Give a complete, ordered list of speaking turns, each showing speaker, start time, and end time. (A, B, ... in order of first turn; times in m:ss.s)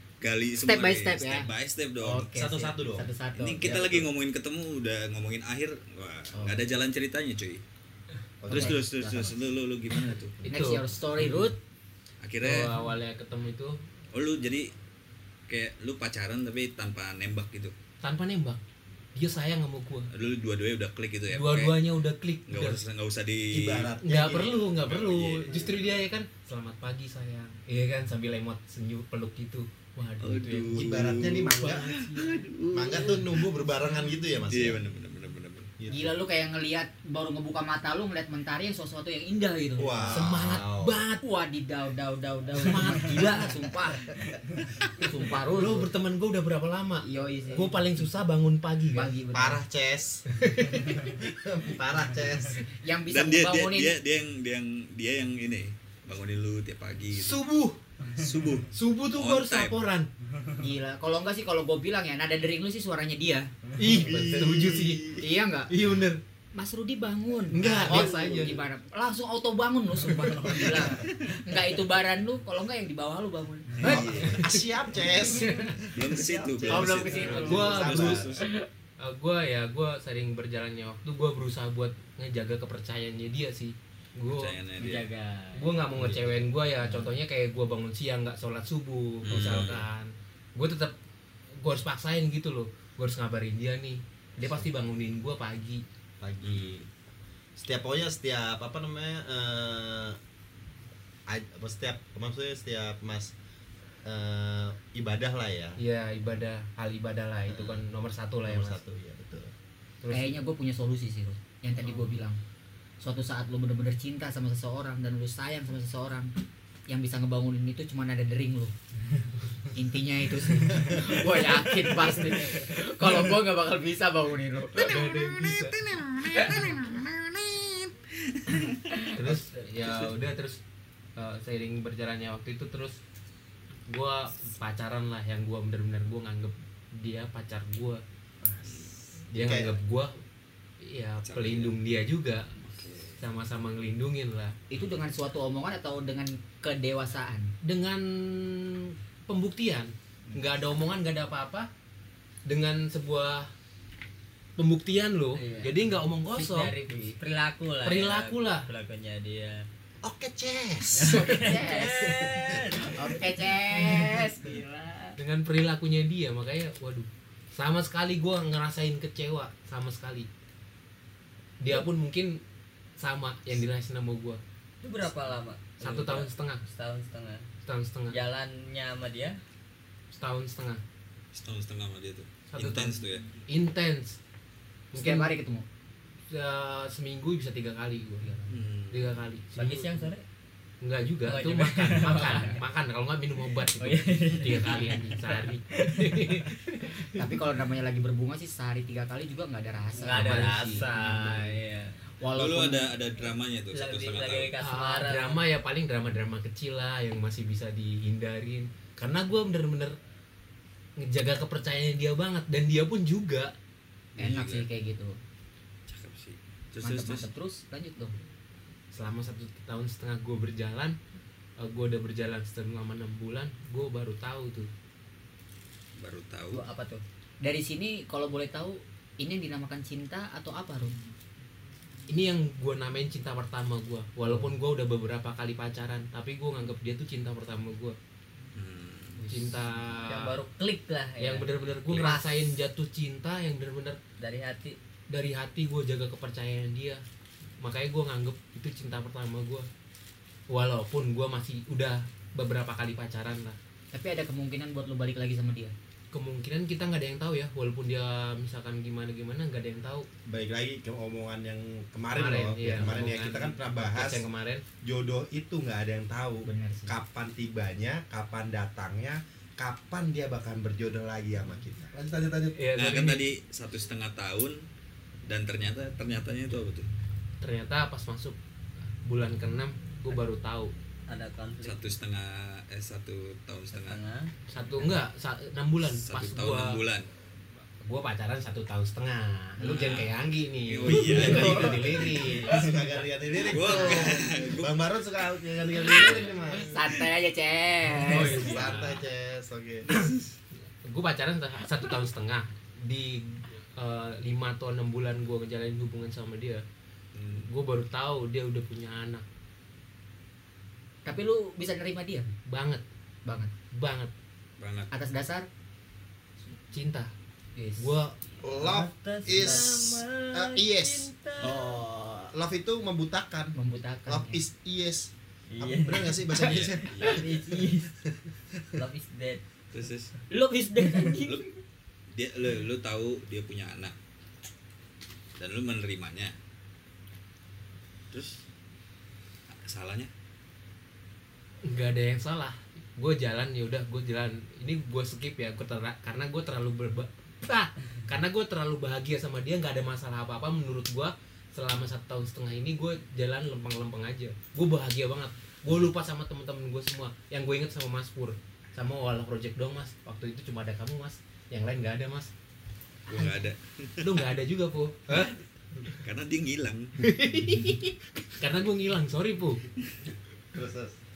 0:00.2-0:02.3 A
0:00.6-0:01.5 B
0:02.0-0:04.0 B
0:02.3-0:03.1 C
0:03.3-0:07.6 A
0:06.3-0:06.7 B
0:08.4-0:09.3 C
0:08.5-0:10.4 A
0:08.5-0:09.3 B
0:10.4-0:11.6 B
0:10.5-0:11.5 D
0:12.2-0:12.7 A
0:12.4-0:13.8 D
0:14.1-0:14.7 A
0:15.5-0:17.7 A
0:18.0-0:18.6 D
0:19.1-0:20.1 D
0:20.1-0:21.8 A
0:21.3-0:22.8 D
0:22.5-0:23.9 A
0:23.5-0:24.6 C
0:24.0-0:32.5 D
0:24.6-0:25.9 A
0:30.2-0:33.4 A
0:30.7-0:31.9 C
0:32.7-0:34.8 C
0:34.5-0:35.7 A
0:35.8-0:36.2 C
0:35.9-0:40.1 B
0:39.8-0:41.0 C
0:40.1-0:41.2 D
0:41.2-0:44.2 B
0:42.6-0:43.6 D
0:44.9-0:45.9 B
0:45.5-0:49.1 D
0:47.0-0:47.8 B
0:48.9-0:49.6 B
0:49.3-0:50.2 C
0:50.3-0:51.0 D
0:50.8-0:52.6 C
0:52.8-0:53.9 B
0:53.1-0:57.4 A
0:57.1-0:57.8 D
0:58.1-0:59.8 A
0:58.7-1:00.1 D
1:00.6-1:03.5 B
1:03.8-1:05.1 D
1:03.9-1:05.2 A
1:04.0-1:04.5 C
1:05.2-1:05.7 B
1:05.7-1:06.2 D
1:06.5-1:14.0 B
1:07.5-1:08.6 D
1:07.6-1:08.2 C
1:13.8-1:14.4 A
1:13.8-1:14.7 D
1:13.8-1:18.3 C
1:15.2-1:15.7 D
1:15.9-1:18.5 A
1:16.6-1:17.7 B
1:17.0-1:18.5 D
1:19.0-1:24.6 D
1:24.3-1:25.0 A
1:24.8-1:25.8 E
1:25.5-1:31.0 D
1:26.0-1:26.4 A
1:29.2-1:29.9 A
1:31.6-1:35.8 D
1:36.2-1:36.8 C
1:36.4-1:36.8 A
1:37.6-1:40.2 C
1:41.3-1:43.3 C
1:44.0-1:45.8 C
1:45.8-1:48.8 D
1:47.5-1:47.8 C
1:48.4-1:49.5 C
1:50.0-1:50.4 D
1:50.1-1:52.4 B
1:53.0-1:56.3 B
1:56.9-1:58.7 B
1:59.7-2:05.1 B
2:04.8-2:05.8 D
2:05.4-2:08.7 A
2:09.1-2:10.6 D
2:11.2-2:13.0 D
2:13.9-2:18.0 D
2:18.4-2:19.8 C
2:18.6-2:18.9 A
2:19.3-2:20.2 D
2:20.8-2:22.5 D
2:21.2-2:21.8 A
2:22.6-2:23.2 A
2:23.2-2:24.5 D
2:24.7-2:27.5 B
2:27.6-2:31.7 D
2:32.4-2:33.5 D
2:34.6-2:36.7 D
2:35.3-2:35.8 E
2:36.4-2:37.2 B
2:36.4-2:39.6 E
2:37.8-2:38.7 D
2:40.0-2:41.5 C
2:40.9-2:45.2 E
2:41.0-2:44.6 B
2:42.0-2:42.8 C
2:45.2-2:50.3 D
2:51.6-2:52.4 D
2:53.0-2:54.4 D
2:54.8-2:57.4 E
2:55.8-2:56.6 D
2:57.6-2:58.2 D
2:58.1-2:59.4 E
3:00.1-3:00.8 D
3:01.3-3:03.3 A
3:02.5-3:04.2 D
3:04.9-3:05.3 D
3:04.9-3:05.6 B
3:06.3-3:10.1 D
3:08.5-3:09.2 A
3:09.5-3:10.2 E
3:10.8-3:17.2 D
3:11.2-3:12.6 E
3:13.8-3:16.4 E
3:17.1-3:20.8 B
3:20.0-3:22.0 E
3:20.1-3:21.5 D
3:22.2-3:22.9 B
3:22.3-3:24.5 A
3:23.7-3:25.4 E
3:24.6-3:30.0 D
3:31.0-3:33.5 D
3:34.2-3:34.7 A
3:34.2-3:35.2 B
3:35.9-3:37.3 A
3:36.8-3:38.1 B
3:38.9-3:41.0 D
3:41.6-3:44.7 D
3:46.0-3:46.6 A
3:46.5-3:47.0 E
3:47.4-3:51.0 B
3:52.1-3:58.0 D
3:58.5-3:59.2 A
3:59.3-4:00.4 D
4:00.1-4:02.2 E
4:01.2-4:04.0 D
4:04.2-4:04.8 E
4:05.1-4:07.0 D
4:07.6-4:09.7 D
4:10.5-4:13.6 D
4:13.9-4:15.7 B
4:16.1-4:20.1 D
4:20.3-4:24.2 C
4:22.1-4:24.6 D
4:24.8-4:32.6 C
4:26.4-4:26.9 B
4:32.6-4:33.2 D
4:32.8-4:34.6 A
4:35.2-4:36.9 A
4:37.4-4:38.4 D
4:39.0-4:40.7 D
4:41.1-4:41.8 E
4:41.6-4:44.0 A
4:43.7-4:44.3 E
4:44.5-4:46.8 D
4:45.8-4:47.1 A
4:47.8-4:52.6 D
4:49.6-4:52.1 A
4:51.0-4:51.8 E
4:52.2-4:56.9 C
4:53.5-4:54.8 A
4:53.6-4:54.2 B
4:55.9-4:58.6 B
4:58.0-4:59.0 D
4:58.2-4:59.9 C
4:59.9-5:00.2 D
5:00.8-5:06.6 D
5:07.1-5:07.5 A
5:07.4-5:09.2 D
5:11.0-5:12.3 B
5:12.5-5:12.8 D
5:13.2-5:13.5 B
5:13.7-5:14.1 D
5:14.6-5:14.9 A
5:14.9-5:15.5 B
5:16.7-5:17.1 D
5:17.6-5:17.9 B
5:17.8-5:18.2 D
5:18.4-5:21.8 C
5:18.5-5:21.6 E
5:21.4-5:22.3 B
5:22.3-5:23.6 C
5:23.5-5:24.4 B
5:24.1-5:27.4 C
5:25.5-5:27.9 E
5:26.4-5:27.2 A
5:28.7-5:29.4 E
5:29.7-5:30.1 A
5:30.3-5:31.4 B
5:32.1-5:33.9 A
5:35.4-5:36.3 A
5:38.1-5:38.4 A
5:39.5-5:40.1 A
5:41.6-6:02.3 D
6:03.1-6:04.3 A
6:04.0-6:05.4 D
6:05.9-6:07.0 A
6:07.0-6:09.6 D
6:10.5-6:11.0 C